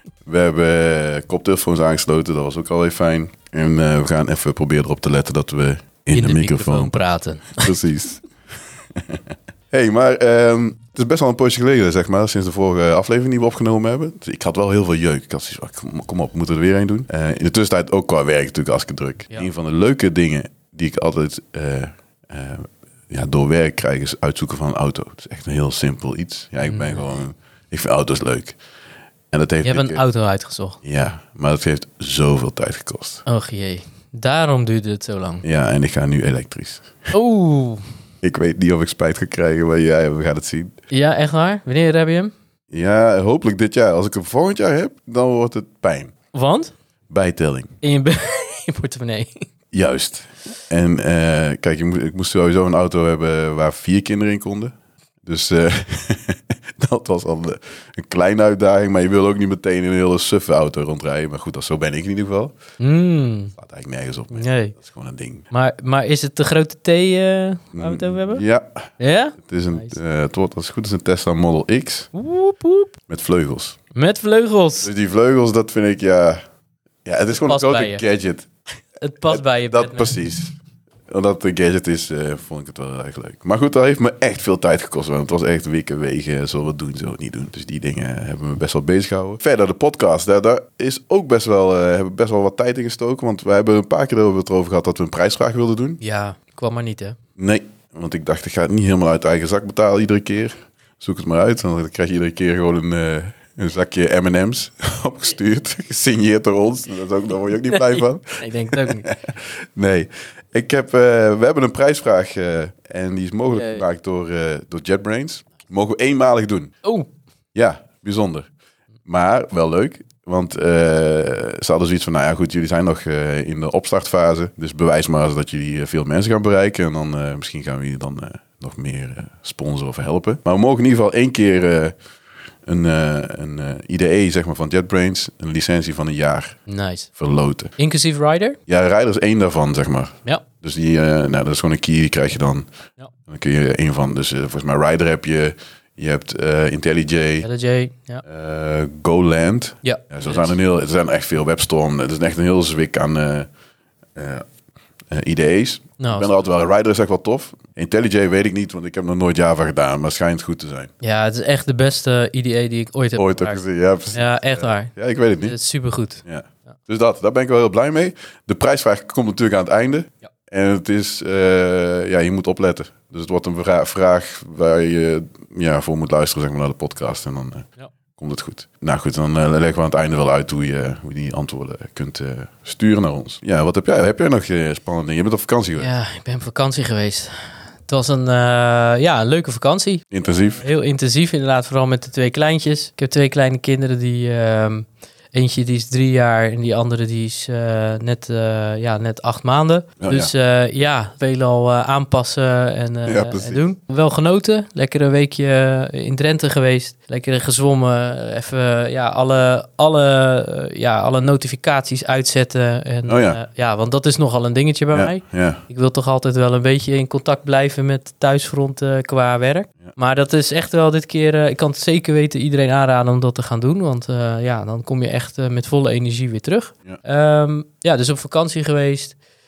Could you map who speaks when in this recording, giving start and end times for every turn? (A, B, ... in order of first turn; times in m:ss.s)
0:00.2-0:07.0 A
0:06.1-0:07.7 B
0:07.6-0:08.2 A
0:08.9-0:28.6 A
0:26.7-0:27.1 B
0:29.3-0:30.0 A
0:29.6-0:30.8 B
0:30.8-0:33.2 A
0:33.2-0:35.4 B
0:35.4-0:37.1 A
0:37.1-0:37.8 B
0:38.2-0:40.7 A
0:40.9-0:42.3 B
0:42.7-0:46.1 A
0:46.3-0:46.7 B
0:47.1-0:47.7 A
0:47.8-0:49.4 B
0:49.7-1:02.5 A
1:02.8-1:03.5 B
1:03.6-1:05.4 A
1:04.3-1:04.7 B
1:05.5-1:08.4 B
1:07.7-1:08.9 A
1:09.0-1:10.0 B
1:09.4-1:12.1 A
1:12.1-1:12.9 B
1:13.1-1:13.8 A
1:13.9-1:14.9 B
1:14.8-1:16.4 A
1:17.0-1:18.5 A
1:17.5-1:18.0 B
1:19.0-1:20.1 B
1:19.3-1:20.5 A
1:21.1-1:36.0 A
1:36.0-1:37.2 B
1:37.4-1:56.7 A
1:47.7-1:49.1 B
1:53.5-1:53.8 B
1:57.5-1:58.5 A
1:59.1-2:11.9 A
2:12.6-2:16.6 A
2:16.7-2:17.1 B
2:17.2-2:17.7 A
2:17.8-2:18.6 B
2:18.7-2:22.6 A
2:23.3-2:27.5 A
2:27.4-2:28.2 B
2:28.2-2:33.5 A
2:29.8-2:30.5 B
2:34.1-2:34.5 A
2:35.1-2:40.9 A
2:36.0-2:36.3 B
2:41.0-2:46.2 B
2:43.2-2:45.6 A
2:46.2-3:05.9 A
3:05.8-3:10.0 B
3:10.1-3:10.6 A
3:10.6-3:49.2 B
3:20.0-3:20.3 A
3:23.0-3:23.6 A
3:33.1-3:33.4 A
3:34.9-3:35.6 A